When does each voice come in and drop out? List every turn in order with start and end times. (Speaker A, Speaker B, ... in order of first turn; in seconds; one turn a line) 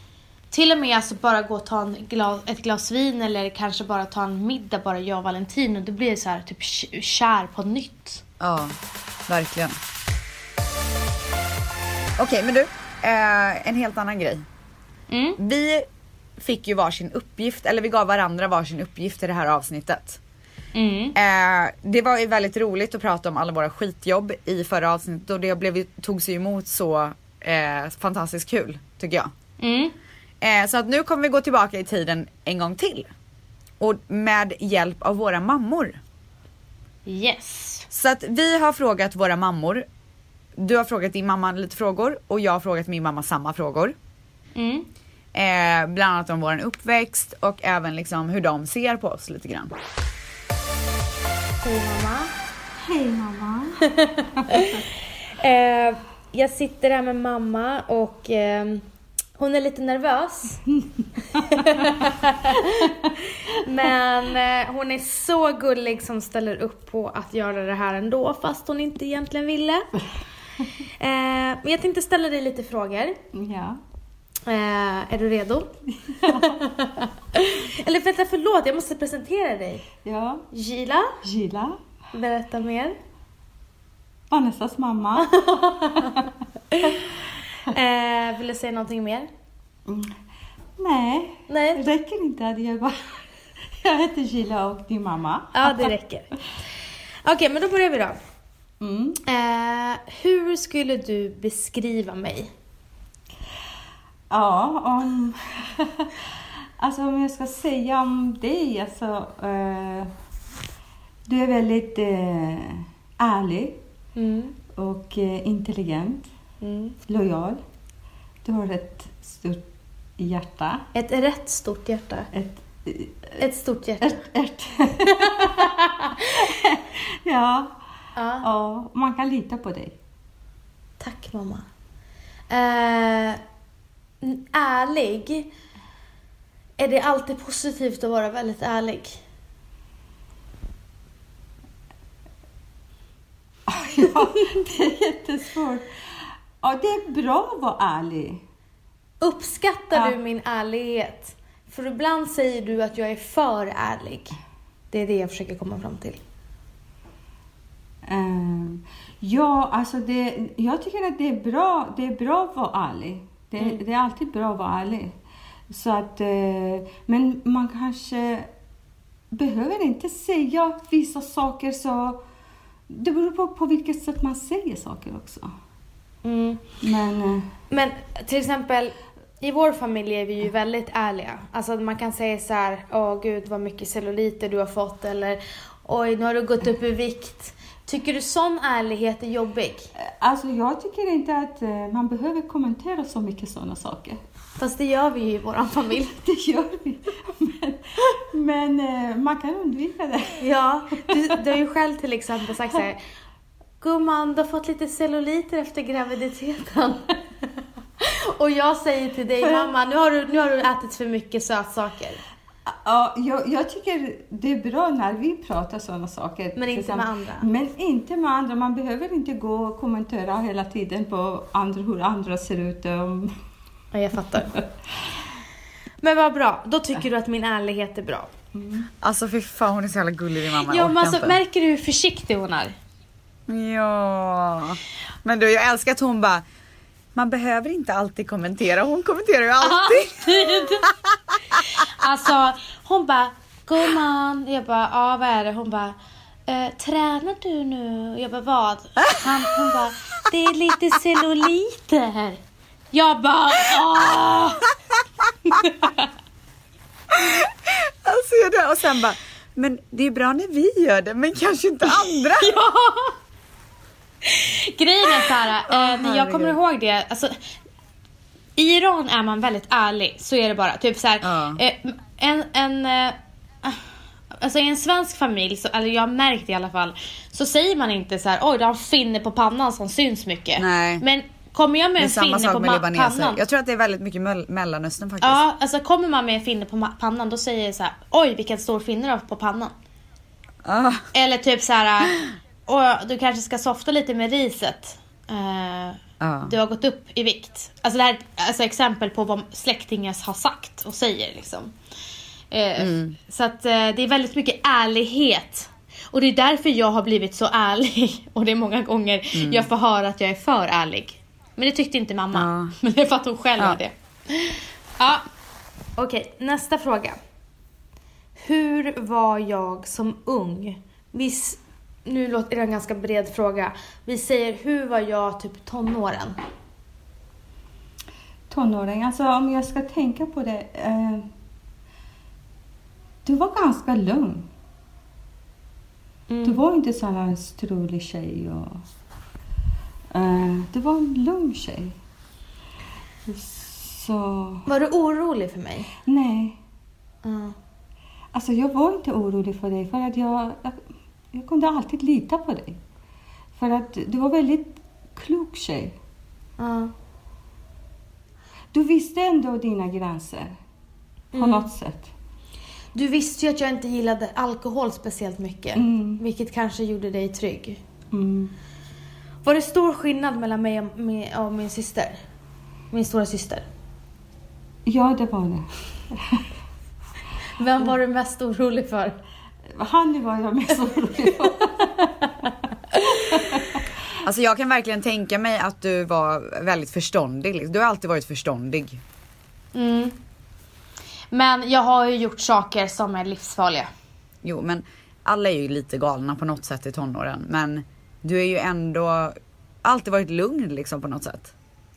Speaker A: 0.5-8.2
Speaker B: 8.4-8.8
Speaker B: 9.3-9.8
Speaker B: 12.2-14.4
Speaker A: 15.1-15.4
Speaker B: 15.4-15.8
Speaker B: 16.4-20.2
Speaker A: 20.7-21.1
Speaker B: 21.1-29.3
Speaker A: 29.6-29.9
Speaker B: 30.4-33.1
Speaker B: 33.8-36.0
Speaker A: 37.0-37.9
Speaker B: 37.9-39.9
Speaker B: 40.5-43.9
Speaker A: 44.5-44.9
Speaker B: 45.3-49.7
Speaker A: 51.6-52.3
Speaker C: 52.8-54.7
Speaker A: 53.8-54.8
Speaker A: 55.4-58.8
Speaker A: 59.4-60.6
Speaker C: 61.0-62.0
Speaker A: 61.3-69.9
Speaker A: 71.0-73.2
Speaker C: 73.3-73.8
Speaker A: 74.5-79.9
Speaker C: 76.0-76.6
Speaker C: 80.0-80.4
Speaker A: 80.5-81.1
Speaker C: 81.2-81.8
Speaker A: 82.1-83.0
Speaker C: 84.3-86.2
Speaker A: 85.2-87.0
Speaker A: 87.7-89.3
Speaker C: 89.9-90.1
Speaker C: 90.8-93.2
Speaker A: 91.5-91.8
Speaker C: 93.8-95.9
Speaker A: 95.5-96.3
Speaker A: 97.2-98.2
Speaker C: 98.8-99.2
Speaker A: 99.2-102.5
Speaker C: 104.3-110.1
Speaker C: 111.2-113.8
Speaker A: 114.2-114.5
Speaker C: 114.7-116.2
Speaker A: 116.6-117.0
Speaker C: 117.0-117.6
Speaker C: 118.4-119.7
Speaker C: 120.2-120.8
Speaker A: 120.9-122.3
Speaker C: 122.3-123.4
Speaker A: 123.4-124.2
Speaker C: 124.0-127.7
Speaker A: 125.0-126.3
Speaker A: 128.2-128.5
Speaker C: 128.4-129.9
Speaker A: 131.0-131.6
Speaker A: 132.5-133.4
Speaker A: 134.2-135.5
Speaker A: 136.8-139.2
Speaker C: 143.7-145.9
Speaker C: 146.6-148.4
Speaker A: 149.2-154.3
Speaker A: 154.9-156.2
Speaker C: 158.0-165.1
Speaker C: 165.7-168.5
Speaker C: 169.3-172.2
Speaker C: 172.9-175.5
Speaker A: 176.2-176.7
Speaker C: 176.8-177.5
Speaker A: 177.7-189.9
Speaker C: 190.0-194.2
Speaker A: 194.6-196.2
Speaker C: 196.2-201.4
Speaker A: 200.4-203.0
Speaker A: 203.8-207.2
Speaker A: 208.0-212.2
Speaker C: 209.4-209.7
Speaker C: 212.7-223.3
Speaker A: 216.6-217.5
Speaker A: 223.9-224.6
Speaker A: 226.0-228.3
Speaker C: 228.5-228.9
Speaker B: 229.0-231.4
Speaker A: 230.6-232.8
Speaker B: 233.5-236.4
Speaker B: 237.1-240.8
Speaker A: 239.6-240.9
Speaker A: 241.7-252.4
Speaker A: 252.9-254.6
Speaker A: 255.5-256.1
Speaker B: 257.1-262.5
Speaker A: 261.9-263.1
Speaker A: 264.2-267.4
Speaker B: 265.7-266.6
Speaker A: 268.6-273.8
Speaker B: 271.2-271.6
Speaker A: 274.3-283.4
Speaker B: 280.6-281.0
Speaker B: 282.0-285.4
Speaker A: 285.2-289.7
Speaker B: 290.6-291.1
Speaker A: 291.1-301.7
Speaker B: 296.2-296.5
Speaker A: 302.5-315.2
Speaker B: 302.8-303.1
Speaker B: 309.3-309.7
Speaker B: 312.3-312.7
Speaker A: 315.9-317.2
Speaker A: 318.4-326.4
Speaker C: 328.5-331.3
Speaker C: 333.2-334.5
Speaker A: 336.3-336.6
Speaker C: 336.4-338.8
Speaker C: 340.1-342.0
Speaker C: 343.2-344.7
Speaker A: 344.7-345.9
Speaker C: 346.0-346.6
Speaker A: 347.2-347.5
Speaker C: 348.3-350.8
Speaker C: 351.3-352.8
Speaker C: 353.5-355.9
Speaker A: 356.6-356.9
Speaker C: 358.7-360.5
Speaker A: 361.3-361.7
Speaker C: 361.4-362.1
Speaker A: 362.9-367.8
Speaker C: 365.8-366.2
Speaker C: 368.1-368.5
Speaker A: 369.4-372.2
Speaker A: 372.9-373.6
Speaker C: 374.9-376.5
Speaker A: 377.6-379.2
Speaker C: 379.7-382.2
Speaker C: 382.9-383.8
Speaker B: 384.2-389.0
Speaker A: 389.7-390.2
Speaker A: 391.3-393.9
Speaker B: 394.4-401.5